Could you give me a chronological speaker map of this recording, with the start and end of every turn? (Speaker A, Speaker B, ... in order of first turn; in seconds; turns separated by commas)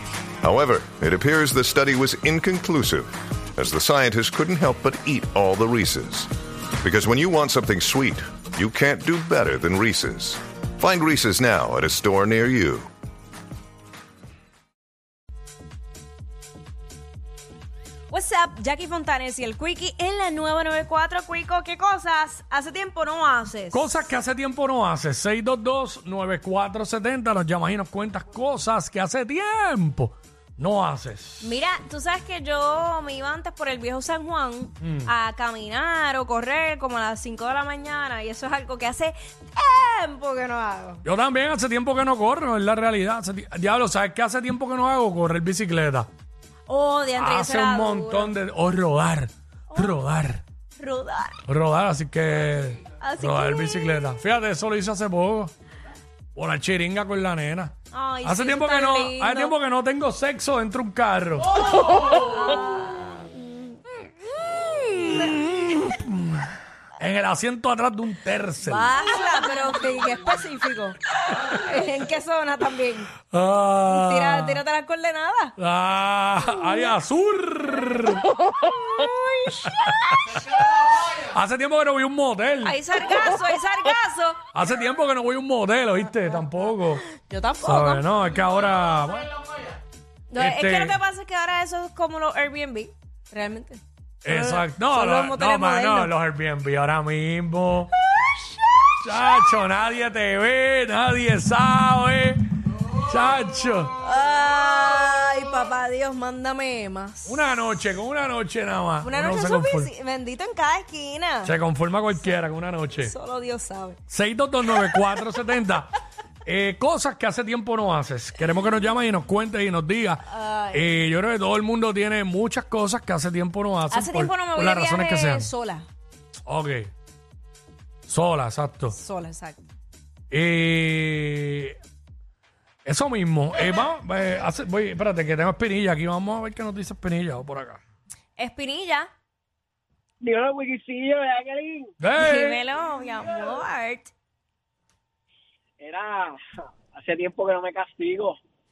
Speaker A: 0.4-6.3, Speaker A: 6.8-12.9, Speaker B: 18.1-23.8, Speaker C: 23.7-31.5, Speaker B: 31.4-41.0, Speaker C: 34.8-35.1, Speaker C: 41.0-46.1, Speaker B: 46.7-48.3, Speaker C: 47.1-50.4, Speaker B: 49.7-50.0, Speaker B: 50.8-51.4, Speaker C: 51.5-55.5, Speaker B: 53.0-54.0, Speaker C: 56.3-57.7, Speaker B: 57.9-59.5, Speaker C: 58.2-61.6, Speaker B: 61.7-65.8, Speaker C: 65.2-69.0, Speaker B: 68.6-73.2, Speaker C: 73.3-74.6, Speaker B: 73.9-75.5, Speaker C: 75.6-78.2, Speaker B: 78.6-80.2, Speaker C: 81.1-82.8, Speaker B: 82.6-84.4, Speaker C: 84.5-87.0, Speaker B: 86.2-88.1, Speaker C: 87.6-89.4, Speaker B: 90.3-96.1, Speaker C: 90.3-91.0, Speaker C: 94.2-97.9, Speaker B: 98.0-99.4, Speaker C: 99.0-104.0, Speaker B: 103.9-107.4, Speaker C: 107.2-109.9, Speaker B: 109.0-111.5, Speaker C: 111.4-113.1, Speaker B: 113.0-114.0, Speaker C: 114.1-115.9, Speaker C: 116.4-125.5, Speaker B: 120.3-120.9, Speaker B: 123.9-125.9, Speaker C: 126.5-126.9, Speaker C: 128.1-128.9, Speaker B: 128.9-129.6, Speaker C: 130.3-131.8, Speaker C: 132.8-137.8, Speaker B: 138.4-139.1, Speaker D: 140.2-141.9, Speaker C: 142.0-142.6, Speaker B: 142.2-144.1, Speaker D: 145.8-148.4